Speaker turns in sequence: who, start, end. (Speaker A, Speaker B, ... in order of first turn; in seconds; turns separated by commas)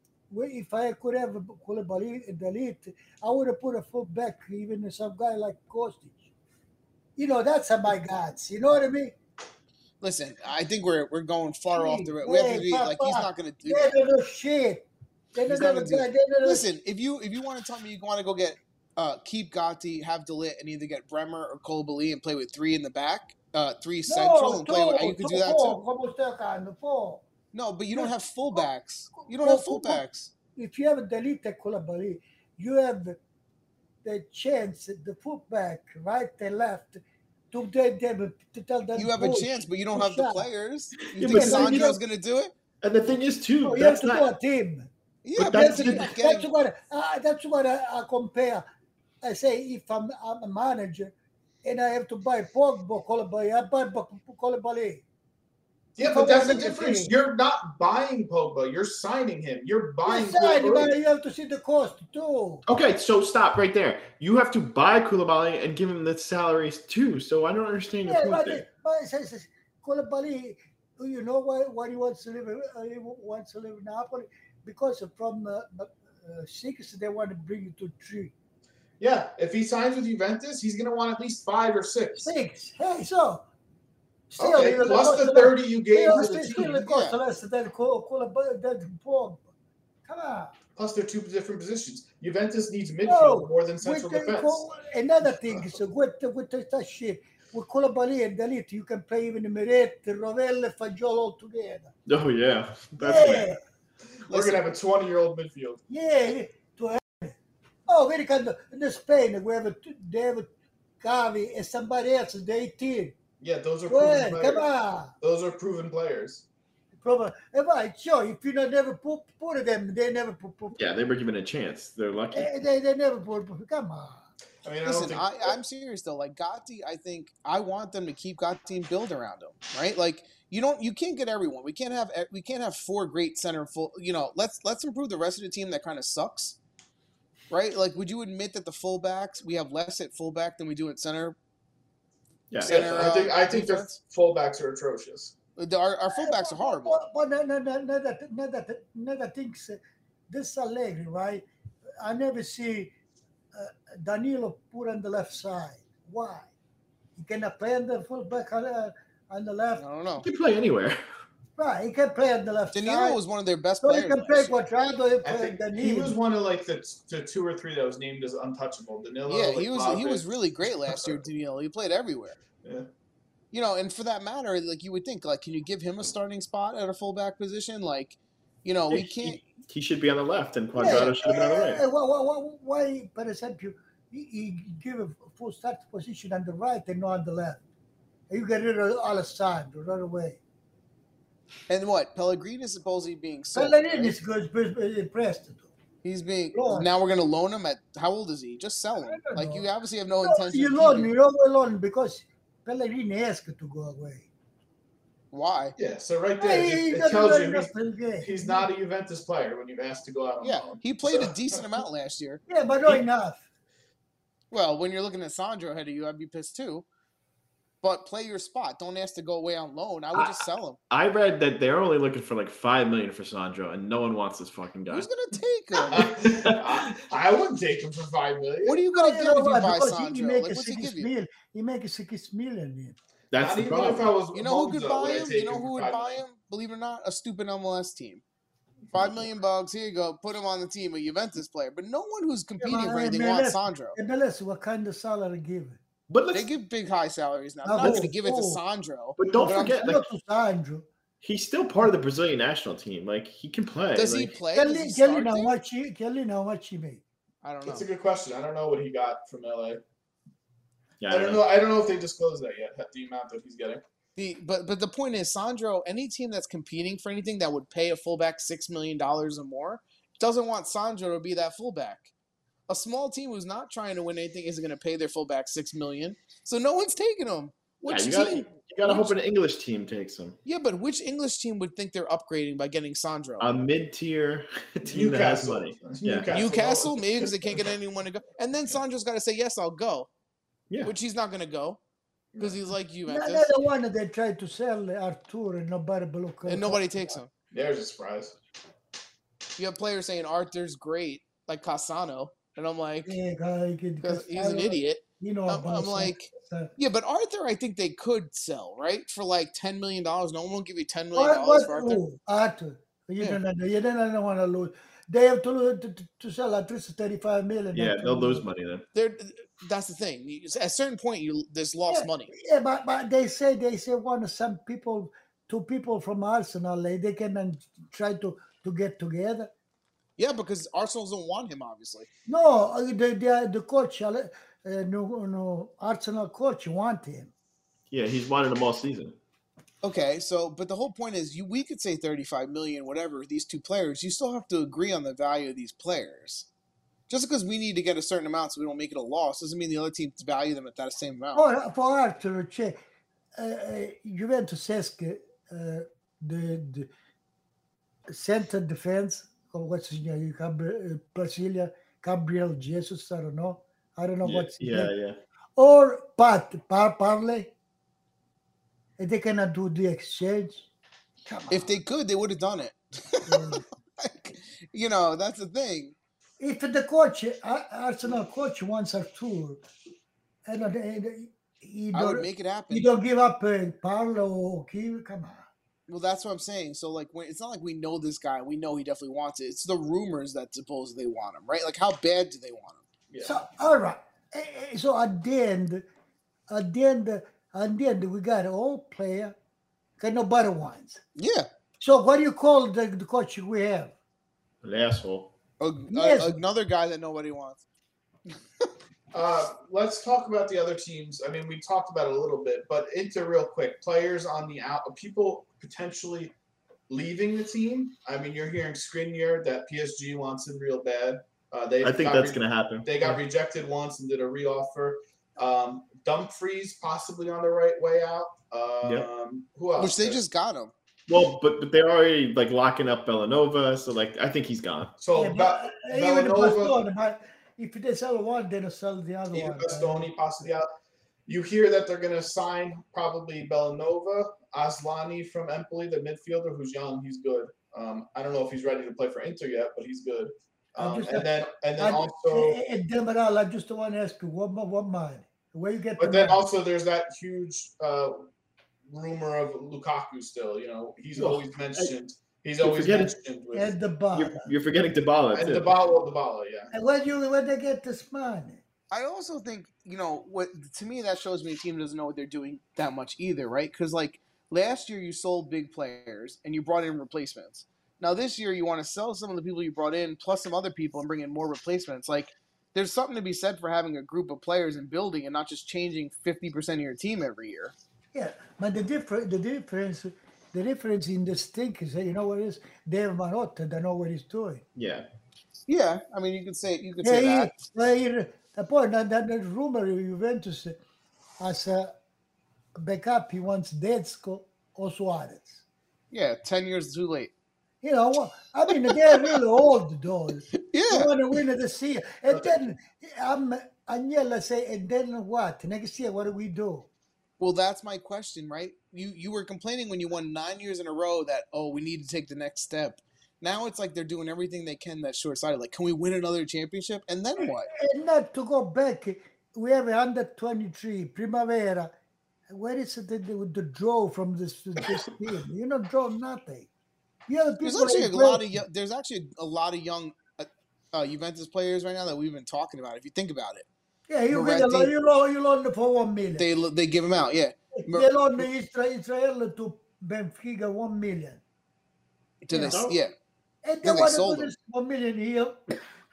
Speaker A: 0.3-6.3, Speaker A: 7.2-9.2, Speaker B: 10.0-13.9, Speaker A: 11.7-16.7, Speaker B: 15.4-25.8, Speaker A: 24.1-27.2, Speaker B: 27.5-30.3, Speaker A: 27.9-28.7, Speaker A: 29.3-30.0, Speaker A: 30.5-33.2, Speaker A: 34.0-40.5, Speaker B: 39.0-42.5, Speaker C: 41.1-41.9, Speaker A: 41.2-42.0, Speaker C: 42.8-44.3, Speaker A: 43.6-48.7, Speaker B: 45.2-46.5, Speaker C: 45.4-46.1, Speaker A: 49.2-55.0, Speaker D: 56.0-61.0, Speaker A: 56.0-57.1, Speaker A: 60.1-62.6, Speaker C: 62.7-68.6, Speaker A: 68.1-78.3, Speaker D: 79.0-82.3, Speaker A: 82.2-83.5, Speaker A: 84.3-89.5, Speaker D: 84.4-86.8, Speaker B: 86.4-87.2, Speaker A: 90.1-90.5, Speaker D: 90.8-94.7, Speaker A: 93.1-101.9, Speaker D: 95.2-95.7, Speaker C: 102.1-103.5, Speaker A: 103.0-103.6, Speaker D: 104.3-105.8, Speaker B: 104.3-104.7, Speaker A: 105.9-107.4, Speaker A: 107.9-110.5, Speaker A: 111.0-113.2, Speaker D: 113.4-114.7, Speaker A: 113.9-115.1, Speaker D: 115.2-116.5, Speaker A: 117.0-120.8, Speaker C: 120.7-122.5, Speaker A: 122.3-124.2, Speaker D: 124.6-125.6, Speaker B: 124.8-136.6, Speaker B: 137.5-141.4, Speaker C: 142.5-142.8, Speaker B: 142.6-144.0, Speaker D: 142.6-145.3, Speaker B: 145.6-147.0, Speaker A: 146.1-151.4, Speaker A: 152.0-152.9, Speaker A: 153.5-156.5, Speaker A: 157.2-159.8, Speaker B: 159.8-160.3, Speaker C: 160.2-161.0, Speaker A: 161.6-163.2, Speaker B: 162.7-164.6, Speaker A: 163.8-166.2, Speaker D: 165.2-171.2, Speaker B: 169.3-172.4, Speaker B: 173.5-179.4, Speaker C: 178.9-181.8, Speaker A: 180.8-187.6, Speaker A: 188.3-190.4, Speaker B: 191.7-194.2, Speaker A: 193.5-195.7, Speaker B: 196.0-201.1, Speaker A: 196.5-196.9, Speaker A: 199.0-199.7, Speaker A: 200.2-204.3, Speaker B: 205.3-205.8, Speaker D: 205.8-211.6, Speaker A: 206.4-208.7, Speaker B: 210.4-212.4, Speaker A: 212.5-213.4, Speaker B: 214.5-216.9, Speaker B: 217.8-220.8, Speaker C: 220.2-225.1, Speaker B: 224.9-226.1, Speaker D: 225.9-228.8, Speaker C: 225.9-226.8, Speaker B: 228.6-231.1, Speaker A: 228.9-233.0, Speaker C: 233.3-234.1, Speaker D: 233.4-236.2, Speaker B: 234.3-238.2, Speaker B: 238.9-244.0, Speaker A: 242.6-245.8, Speaker C: 246.1-246.5, Speaker B: 246.3-249.8, Speaker A: 247.7-248.6, Speaker C: 247.8-248.1, Speaker C: 249.2-250.1, Speaker A: 249.3-250.9, Speaker C: 251.2-254.3, Speaker B: 253.9-255.6, Speaker A: 254.5-257.0, Speaker B: 257.4-257.9, Speaker D: 257.6-259.8, Speaker C: 261.0-261.4, Speaker D: 261.1-263.8, Speaker B: 264.2-272.1, Speaker B: 272.7-279.1, Speaker C: 277.9-280.4, Speaker B: 280.4-283.5, Speaker C: 283.4-286.3, Speaker D: 284.9-287.7, Speaker B: 286.3-290.1, Speaker B: 290.8-291.8, Speaker D: 292.3-292.6, Speaker B: 292.4-293.5, Speaker A: 293.1-297.2, Speaker B: 296.5-297.3, Speaker D: 297.5-298.4, Speaker B: 299.6-303.2, Speaker A: 303.1-306.7, Speaker B: 304.0-312.0, Speaker A: 311.1-318.4, Speaker C: 317.7-318.9, Speaker B: 318.9-322.3, Speaker A: 321.9-329.5, Speaker B: 330.2-332.1, Speaker A: 332.3-337.3, Speaker C: 337.9-339.2, Speaker B: 339.8-346.5, Speaker B: 347.1-351.4, Speaker A: 351.3-352.8, Speaker A: 353.4-356.9, Speaker A: 358.1-364.9, Speaker C: 364.2-365.2, Speaker A: 365.6-367.5, Speaker A: 369.0-370.7, Speaker A: 371.3-371.7, Speaker B: 371.5-375.9, Speaker A: 373.3-373.6, Speaker A: 376.4-379.6, Speaker A: 380.5-385.5, Speaker B: 381.9-382.9, Speaker B: 385.9-392.8, Speaker D: 393.1-393.4, Speaker A: 393.2-395.9, Speaker A: 396.5-399.4, Speaker A: 400.0-401.0, Speaker B: 401.2-401.5, Speaker A: 401.8-403.9, Speaker C: 404.6-405.3, Speaker B: 405.6-407.6, Speaker A: 405.9-406.4, Speaker D: 409.1-416.3, Speaker D: 416.9-430.2, Speaker C: 421.8-423.2, Speaker C: 428.8-429.1, Speaker B: 429.8-430.7, Speaker C: 431.1-434.9, Speaker D: 435.0-436.8, Speaker A: 435.1-440.1, Speaker D: 439.3-440.7, Speaker D: 441.3-452.6, Speaker A: 450.8-451.3, Speaker A: 451.8-456.4, Speaker D: 456.0-458.3, Speaker D: 458.9-463.8, Speaker C: 461.1-461.9, Speaker C: 462.6-463.1, Speaker A: 463.5-464.5, Speaker C: 464.1-465.7, Speaker D: 465.3-466.7, Speaker A: 466.7-468.6, Speaker B: 468.9-487.7, Speaker A: 488.1-494.6, Speaker C: 494.8-495.1, Speaker B: 495.7-497.6, Speaker A: 497.0-500.8, Speaker A: 501.4-501.9, Speaker A: 502.8-505.6, Speaker B: 506.1-507.3, Speaker A: 507.8-516.9, Speaker B: 508.7-509.4, Speaker B: 510.5-511.1, Speaker B: 517.4-527.7, Speaker A: 527.7-531.9, Speaker A: 532.5-536.7, Speaker A: 537.3-538.6, Speaker B: 537.6-543.7, Speaker A: 544.1-546.5, Speaker B: 544.3-544.9, Speaker B: 546.4-548.5, Speaker A: 547.8-551.4, Speaker B: 552.4-553.1, Speaker A: 552.5-552.8, Speaker C: 552.7-553.0, Speaker A: 553.6-555.7, Speaker B: 553.8-554.5